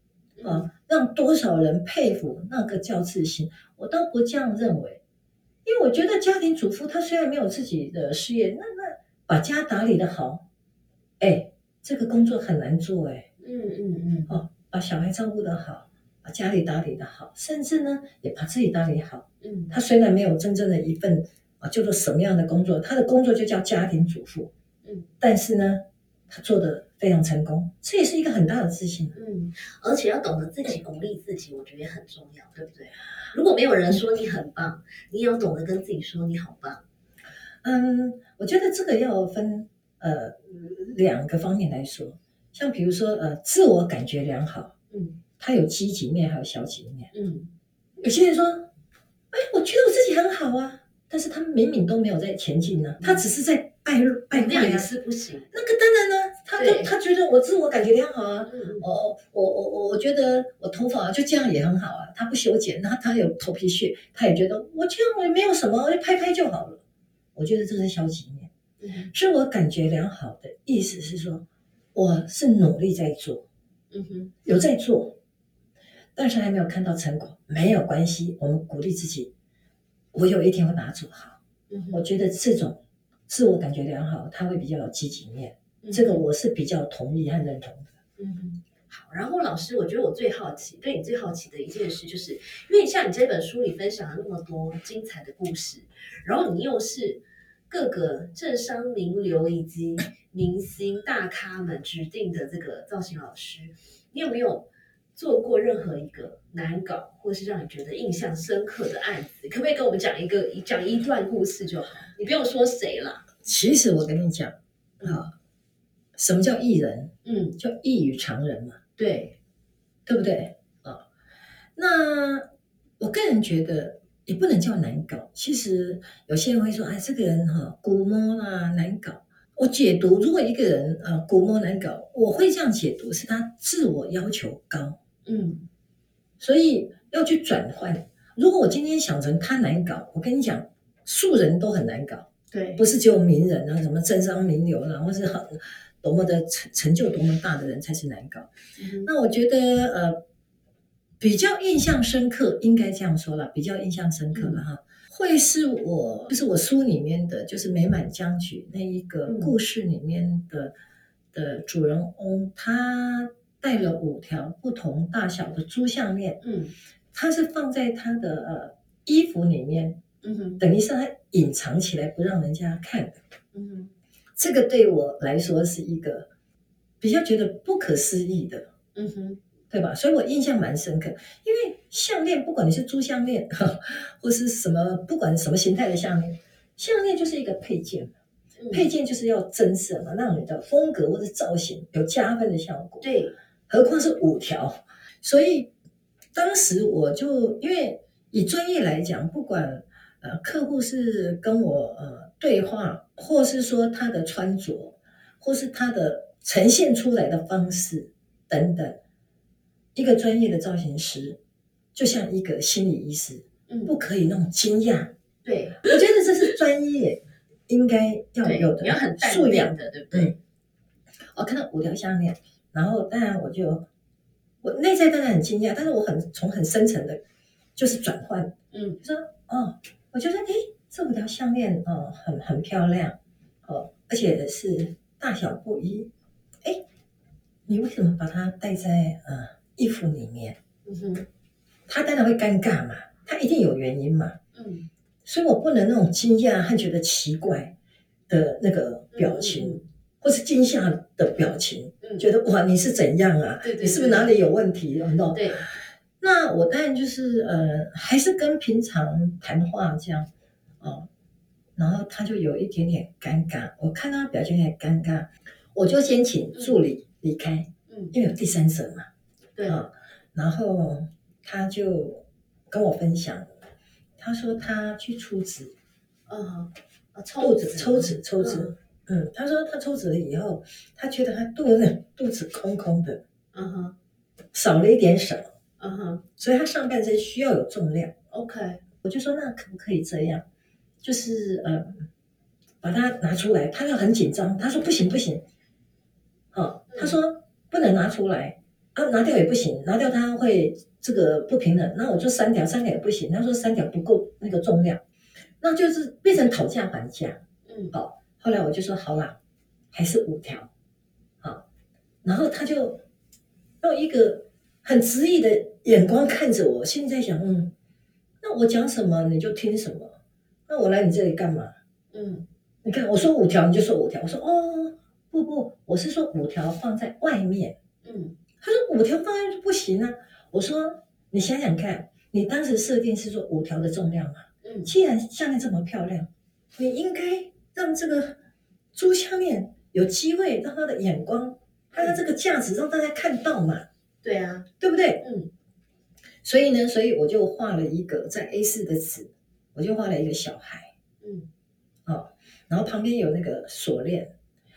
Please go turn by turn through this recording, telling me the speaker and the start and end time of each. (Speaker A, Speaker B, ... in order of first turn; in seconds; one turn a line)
Speaker A: 0.4-0.7
Speaker B: 0.4-5.0
Speaker B: 5.6-10.4
Speaker B: 11.2-13.3
Speaker A: 13.4-14.3
Speaker B: 14.3-24.5
Speaker A: 19.4-19.7
Speaker B: 25.2-29.1
Speaker A: 29.1-36.8
Speaker B: 37.6-44.7
Speaker A: 44.9-45.2
Speaker B: 45.4-47.1
Speaker A: 47.1-47.5
Speaker B: 48.0-48.7
Speaker B: 49.3-54.9
Speaker A: 54.3-55.5
Speaker B: 55.5-66.8
Speaker A: 56.6-56.9
Speaker A: 58.5-58.9
Speaker B: 67.3-68.5
Speaker A: 68.8-69.1
Speaker B: 69.1-73.4
Speaker A: 73.9-74.3
Speaker B: 74.4-75.2
Speaker B: 76.1-79.3
Speaker B: 80.1-81.4
Speaker A: 81.7-82.0
Speaker B: 81.9-87.9
Speaker A: 85.8-86.2
Speaker A: 88.2-113.3
Speaker B: 113.4-115.3
Speaker B: 116.2-118.8
Speaker A: 117.2-117.6
Speaker A: 119.0-119.3
Speaker B: 120.0-121.0
Speaker B: 121.8-122.5
Speaker B: 123.0-135.0
Speaker A: 135.2-135.7
Speaker B: 136.4-148.5
Speaker A: 142.5-142.8
Speaker A: 148.8-149.1
Speaker B: 149.0-150.2
Speaker B: 151.2-160.7
Speaker A: 154.3-154.6
Speaker A: 159.2-159.5
Speaker B: 161.3-166.4
Speaker A: 166.4-166.7
Speaker B: 167.1-170.0
Speaker A: 170.2-170.6
Speaker B: 170.6-173.2
Speaker A: 173.5-173.9
Speaker B: 174.4-176.3
Speaker B: 177.0-178.7
Speaker A: 178.9-179.4
Speaker B: 179.7-188.1
Speaker A: 188.6-188.8
Speaker B: 188.7-193.1
Speaker A: 193.0-193.3
Speaker B: 193.7-195.7
Speaker B: 196.3-209.0
Speaker B: 209.9-211.4
Speaker B: 211.9-215.1
Speaker A: 213.7-213.9
Speaker A: 215.4-215.8
Speaker B: 215.8-220.3
Speaker A: 218.4-220.3
Speaker B: 221.3-223.8
Speaker B: 224.6-227.2
Speaker B: 227.8-236.1
Speaker A: 228.7-229.0
Speaker B: 237.7-240.6
Speaker A: 240.8-241.3
Speaker B: 241.9-244.4
Speaker A: 244.5-244.9
Speaker B: 245.2-247.7
Speaker B: 248.3-255.5
Speaker A: 249.1-249.8
Speaker A: 253.6-254.3
Speaker A: 255.3-255.7
Speaker B: 256.2-260.3
Speaker B: 260.8-261.1
Speaker B: 261.8-269.1
Speaker A: 267.9-268.1
Speaker A: 269.5-269.8
Speaker B: 269.6-273.5
Speaker B: 274.2-275.7
Speaker A: 276.3-278.7
Speaker B: 277.4-283.2
Speaker A: 283.5-283.9
Speaker B: 284.5-285.5
Speaker A: 285.8-286.2
Speaker B: 286.4-288.1
Speaker A: 288.3-288.8
Speaker B: 289.0-290.4
Speaker B: 291.0-292.0
Speaker B: 292.8-295.4
Speaker B: 296.5-305.0
Speaker B: 305.6-307.4
Speaker A: 307.6-307.9
Speaker B: 307.9-309.4
Speaker B: 309.9-310.7
Speaker B: 311.4-311.6
Speaker B: 312.2-313.0
Speaker B: 313.8-317.7
Speaker B: 318.4-320.2
Speaker B: 320.7-321.7
Speaker A: 322.1-322.4
Speaker B: 322.8-327.8
Speaker A: 328.0-328.4
Speaker B: 328.6-338.4
Speaker A: 334.6-334.9
Speaker B: 338.9-343.9
Speaker A: 344.2-344.7
Speaker B: 344.8-345.3
Speaker A: 345.2-345.5
Speaker B: 346.4-350.9
Speaker A: 351.2-351.5
Speaker B: 352.1-354.3